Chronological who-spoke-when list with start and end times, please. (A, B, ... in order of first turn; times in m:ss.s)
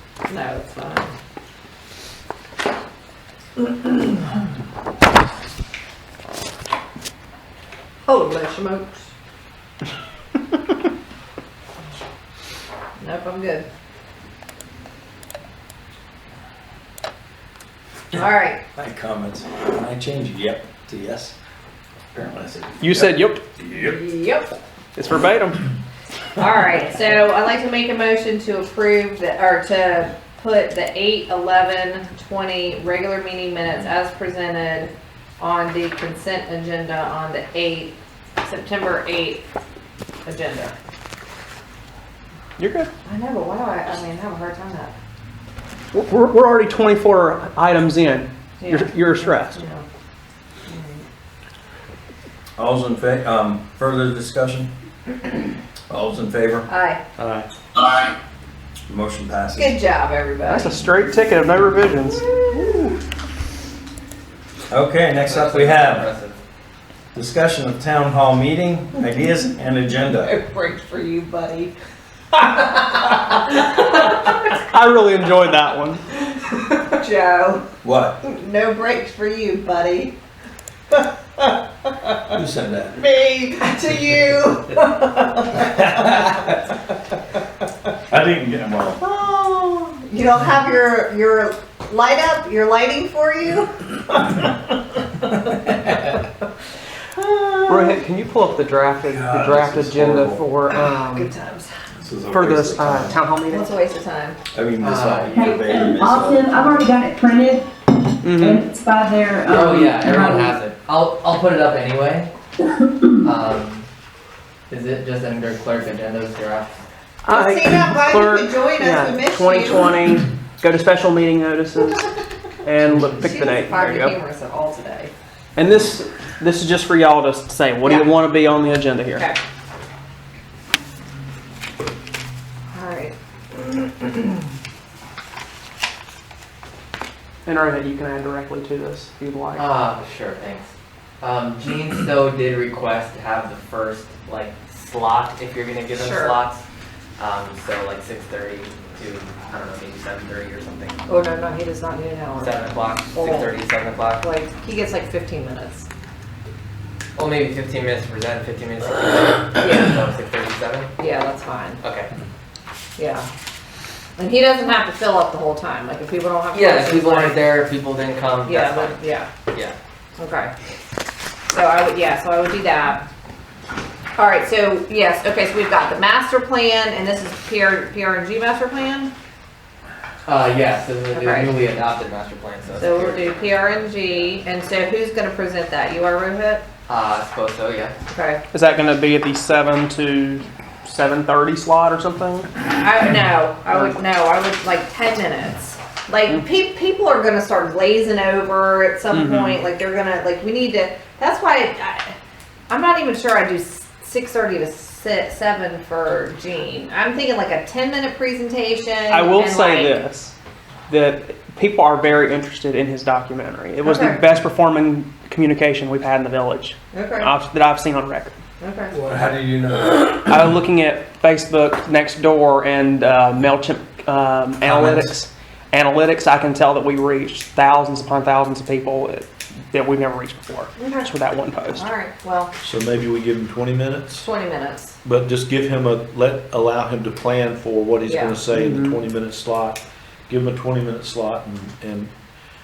0:00.3-0:01.1 A
0:08.1-0:09.1 A
0:13.0-0:13.7 A
0:18.1-0:18.6 A
0:18.8-0:21.4 B
0:22.2-0:24.0 B
0:22.8-0:23.4 C
0:23.7-0:24.6 A
0:25.0-0:25.7 C
0:26.4-0:39.4 A
0:40.2-0:40.8 A
0:42.6-0:42.9 C
0:43.0-0:45.0 A
0:45.9-0:49.6 C
0:48.6-0:49.8 A
0:50.7-0:51.0 A
0:52.6-0:54.7 B
0:55.9-0:56.7 B
0:56.7-0:57.0 A
0:57.2-0:57.5 D
0:58.9-0:59.8 B
0:59.6-1:00.9 A
1:00.5-1:03.0 C
1:02.0-1:02.9 A
1:04.7-1:06.1 B
1:05.2-1:06.4 E
1:07.2-1:10.3 B
1:10.2-1:11.7 A
1:12.4-1:14.3 A
1:14.6-1:16.0 C
1:16.5-1:17.6 A
1:17.8-1:18.2 B
1:18.2-1:20.2 A
1:20.9-1:22.4 A
1:22.3-1:23.0 B
1:23.0-1:26.2 A
1:25.8-1:26.4 B
1:28.1-1:29.0 B
1:29.0-1:34.3 A
1:37.2-1:38.0 A
1:37.7-1:41.3 C
1:39.1-1:40.4 B
1:40.8-1:41.8 A
1:42.0-1:43.2 B
1:42.3-1:43.7 C
1:43.5-1:44.4 A
1:44.5-1:46.6 B
1:44.8-1:45.5 E
1:45.3-1:47.7 F
1:48.2-1:48.7 C
1:48.3-1:50.6 F
1:49.4-1:52.3 E
1:53.2-1:53.9 E
1:54.7-1:56.8 E
1:57.3-1:59.9 A
1:57.3-2:02.1 C
2:02.6-2:04.2 C
2:03.0-2:05.1 A
2:05.6-2:09.3 C
2:07.8-2:08.1 A
2:09.2-2:09.4 A
2:12.7-2:14.1 A
2:17.4-2:19.6 C
2:19.5-2:20.7 E
2:21.2-2:26.6 E
2:25.9-2:26.4 A
2:27.2-2:31.0 E
2:31.1-2:32.6 A
2:32.4-2:34.3 E
2:33.1-2:33.6 A
2:34.2-2:35.9 A
2:37.2-2:40.9 E
2:39.5-2:40.0 A
2:41.0-2:41.8 A
2:41.8-2:42.1 E
2:43.0-2:43.3 A
2:44.2-2:47.4 A
2:46.5-2:49.0 E
2:48.4-2:49.3 A
2:49.5-2:49.8 E
2:50.2-2:50.5 A
2:51.5-2:53.0 A
2:54.2-2:59.1 A
3:00.3-3:04.3 E
3:01.1-3:01.6 A
3:02.7-3:06.6 A
3:06.9-3:08.0 E
3:08.1-3:08.4 A
3:08.5-3:12.5 C
3:12.7-3:22.1 A
3:19.1-3:19.6 C
3:22.7-3:30.0 A
3:29.1-3:30.3 C
3:30.9-3:38.3 C
3:33.8-3:34.2 A
3:36.9-3:37.3 A
3:38.6-3:39.0 A
3:38.9-3:40.3 B
3:40.0-3:51.9 C
3:44.6-3:45.1 B
3:50.8-3:51.1 A
3:51.7-3:52.5 A
3:52.6-3:54.3 D
3:54.2-3:55.0 A
3:55.0-4:02.1 D
3:58.1-3:58.4 A
3:58.5-3:59.0 C